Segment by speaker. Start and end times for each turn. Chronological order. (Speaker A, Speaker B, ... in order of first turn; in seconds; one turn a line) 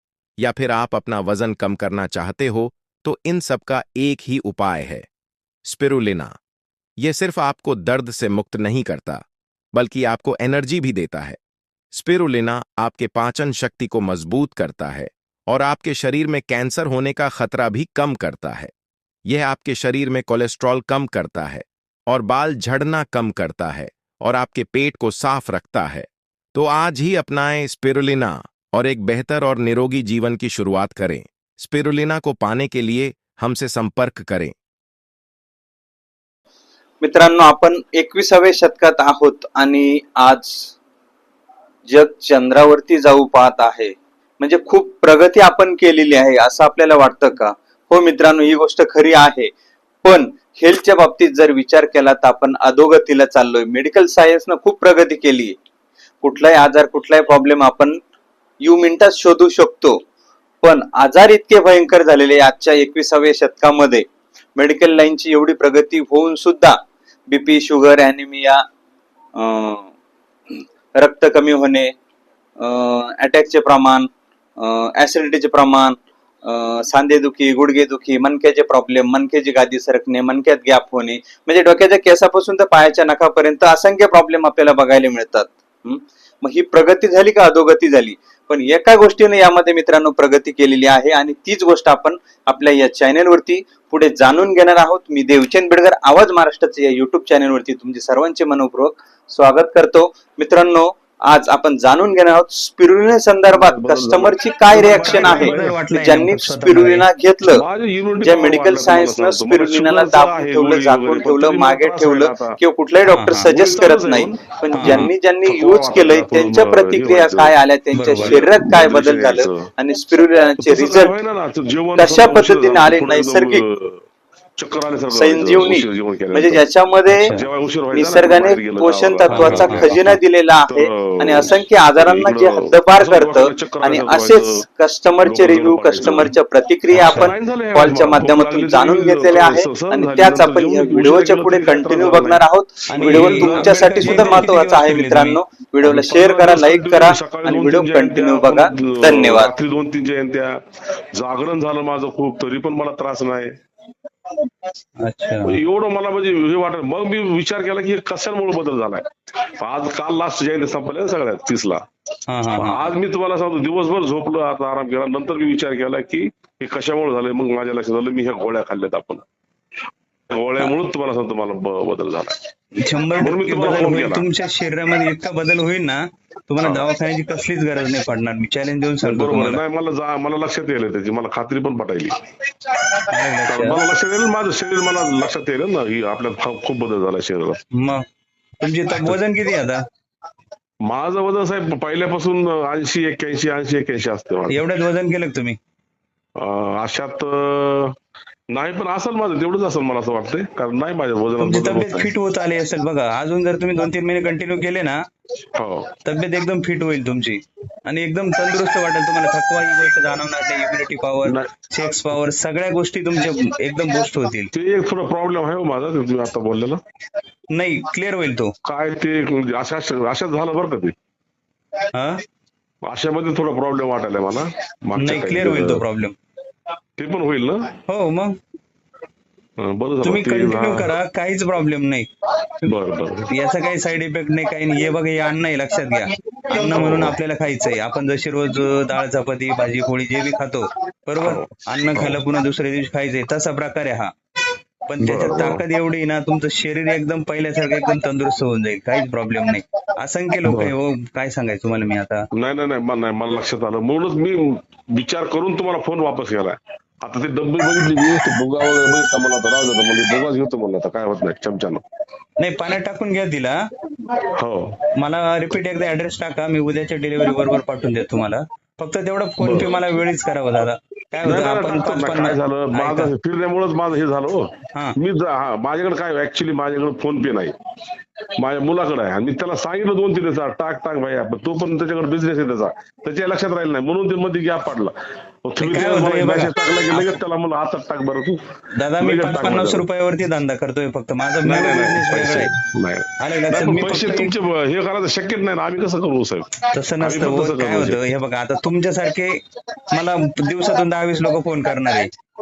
Speaker A: 0.4-5.0
Speaker A: 5.6-6.3
Speaker A: 7.0-11.4
Speaker A: 11.9-18.7
Speaker A: 19.2-34.5
Speaker B: 37.0-40.7
Speaker B: 41.9-49.5
Speaker B: 50.0-55.5
Speaker B: 56.2-58.0
Speaker B: 58.6-60.0
Speaker B: 60.6-66.8
Speaker B: 67.3-68.6
Speaker B: 69.3-69.9
Speaker B: 71.0-71.9
Speaker B: 72.6-107.6
Speaker C: 103.5-105.7
Speaker D: 104.7-107.1
Speaker C: 107.4-112.6
Speaker B: 108.2-121.1
Speaker D: 113.0-113.5
Speaker C: 113.5-119.7
Speaker D: 114.7-115.1
Speaker D: 117.9-118.4
Speaker C: 120.6-124.0
Speaker B: 122.0-123.6
Speaker C: 124.6-130.0
Speaker B: 125.1-127.3
Speaker D: 127.1-127.5
Speaker B: 127.9-149.5
Speaker D: 129.3-130.2
Speaker C: 130.7-134.6
Speaker C: 135.2-136.3
Speaker C: 136.9-144.5
Speaker D: 136.9-137.3
Speaker D: 142.9-145.4
Speaker C: 145.8-150.6
Speaker C: 151.1-153.5
Speaker D: 155.0-155.6
Speaker C: 155.4-159.0
Speaker C: 159.6-161.8
Speaker D: 162.3-162.9
Speaker C: 162.5-169.2
Speaker C: 170.3-172.3
Speaker D: 172.8-179.6
Speaker C: 173.2-174.2
Speaker C: 176.6-176.9
Speaker C: 179.0-182.2
Speaker D: 183.1-183.8
Speaker C: 183.5-187.6
Speaker D: 187.7-188.0
Speaker D: 188.6-189.8
Speaker C: 190.8-194.6
Speaker D: 194.5-195.6
Speaker C: 196.4-197.9
Speaker C: 198.5-202.1
Speaker D: 201.4-205.0
Speaker C: 205.5-205.9
Speaker D: 206.1-214.5
Speaker C: 211.2-211.5
Speaker C: 214.5-216.8
Speaker D: 217.5-218.5
Speaker C: 218.7-220.9
Speaker D: 221.9-222.2
Speaker C: 222.8-225.8
Speaker D: 225.0-226.1
Speaker C: 227.0-227.7
Speaker D: 227.9-228.3
Speaker C: 229.6-230.9
Speaker D: 230.0-232.1
Speaker C: 232.6-233.3
Speaker D: 233.3-244.1
Speaker C: 236.6-237.2
Speaker C: 241.2-242.2
Speaker D: 244.9-252.2
Speaker C: 245.0-245.6
Speaker C: 250.4-250.7
Speaker C: 252.3-261.8
Speaker D: 262.4-263.6
Speaker C: 264.4-264.8
Speaker D: 264.9-273.1
Speaker C: 269.4-269.8
Speaker C: 271.2-277.5
Speaker C: 278.4-284.9
Speaker C: 285.4-288.4
Speaker D: 285.6-287.2
Speaker D: 288.7-292.5
Speaker C: 289.0-289.8
Speaker C: 291.4-298.0
Speaker D: 293.2-294.3
Speaker D: 296.7-302.1